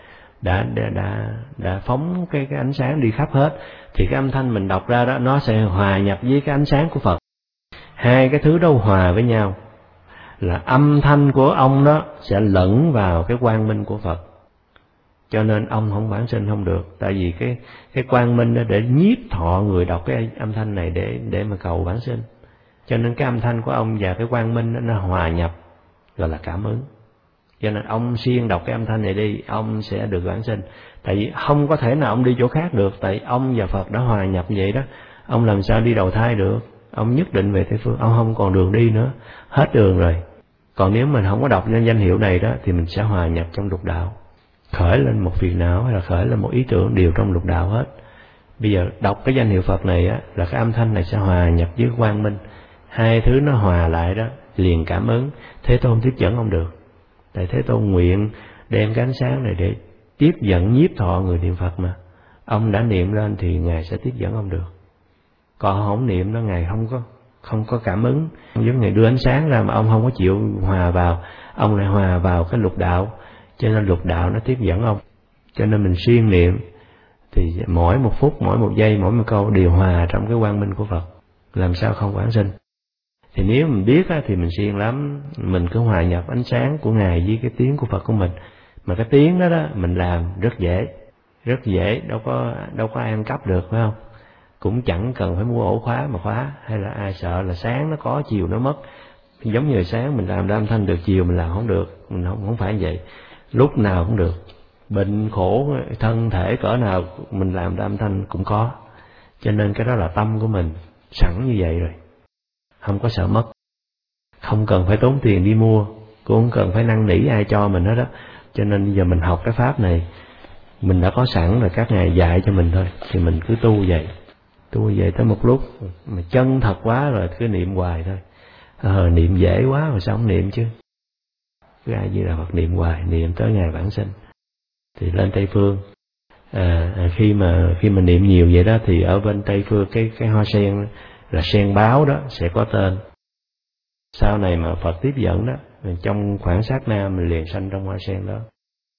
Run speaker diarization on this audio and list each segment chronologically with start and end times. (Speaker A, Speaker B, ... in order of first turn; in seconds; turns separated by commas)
Speaker A: 0.4-7.2, Speaker A: 8.0-9.6, Speaker A: 10.4-14.2, Speaker A: 15.3-22.2, Speaker A: 22.9-25.5, Speaker A: 26.2-26.9, Speaker A: 27.6-40.2, Speaker A: 40.8-44.1, Speaker A: 44.7-47.9, Speaker A: 48.6-52.4, Speaker A: 52.9-56.7, Speaker A: 57.3-64.7, Speaker A: 65.6-75.0, Speaker A: 75.5-76.6, Speaker A: 77.3-82.5, Speaker A: 83.3-88.3, Speaker A: 88.8-90.9, Speaker A: 91.4-94.0, Speaker A: 94.6-98.8, Speaker A: 99.4-103.0, Speaker A: 103.5-108.7, Speaker A: 109.4-112.0, Speaker A: 112.8-113.5, Speaker A: 114.4-120.0, Speaker A: 120.8-124.1, Speaker A: 124.7-128.2, Speaker A: 128.8-130.7, Speaker A: 131.8-134.1, Speaker A: 135.0-135.8, Speaker A: 136.5-143.0, Speaker A: 144.1-148.5